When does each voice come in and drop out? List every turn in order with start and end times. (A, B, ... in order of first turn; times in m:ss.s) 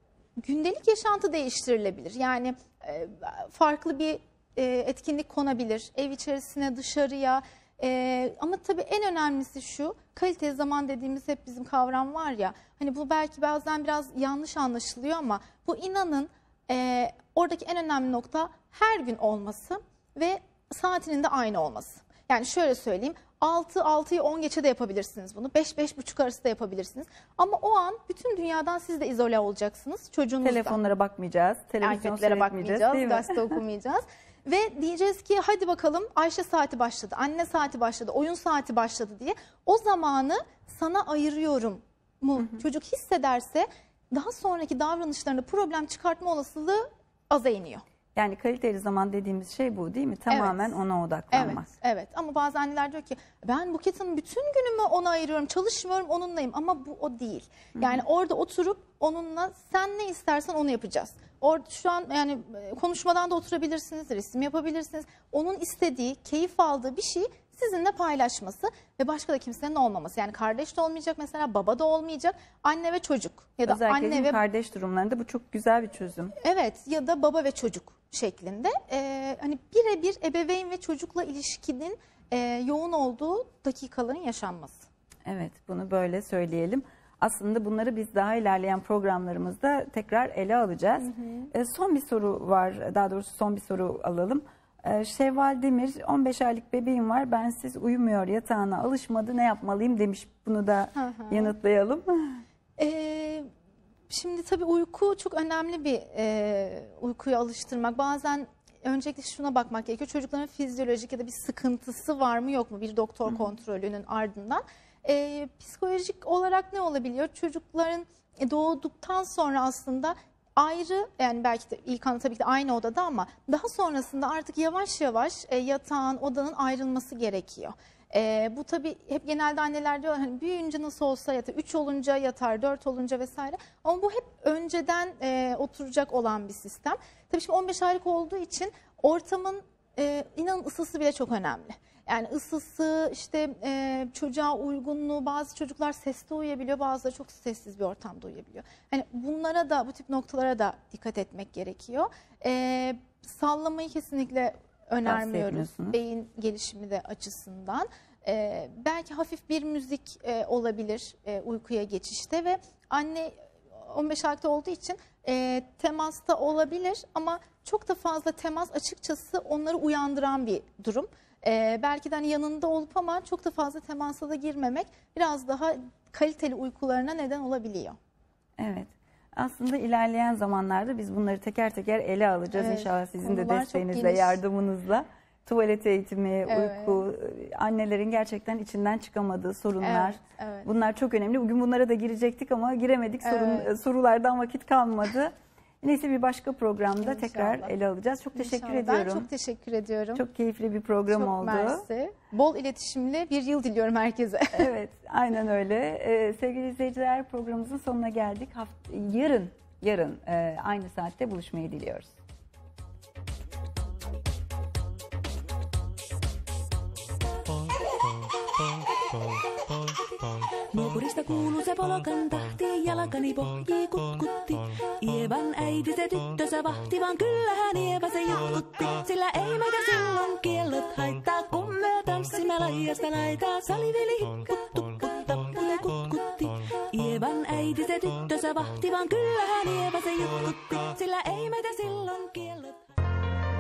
0:00.4-0:30.8 A
0:30.4-0:33.6 B
0:31.8-0:47.8 A
0:48.2-0:51.7 B
0:50.3-0:50.8 A
0:51.3-1:14.4 A
1:13.7-1:16.3 B
1:16.4-1:24.9 A
1:25.3-1:42.4 B
1:31.0-1:31.5 A
1:41.0-1:41.5 A
1:42.8-1:43.5 A
1:44.1-2:58.0 A
2:35.0-2:36.0 B
2:58.6-3:19.3 B
3:02.5-3:04.4 A
3:06.5-3:07.0 A
3:09.8-3:10.7 A
3:13.2-3:13.7 A
3:17.0-3:17.7 A
3:18.4-3:20.2 A
3:20.2-3:21.9 B
3:21.1-3:24.7 A
3:24.5-3:32.1 B
3:38.9-4:02.8 C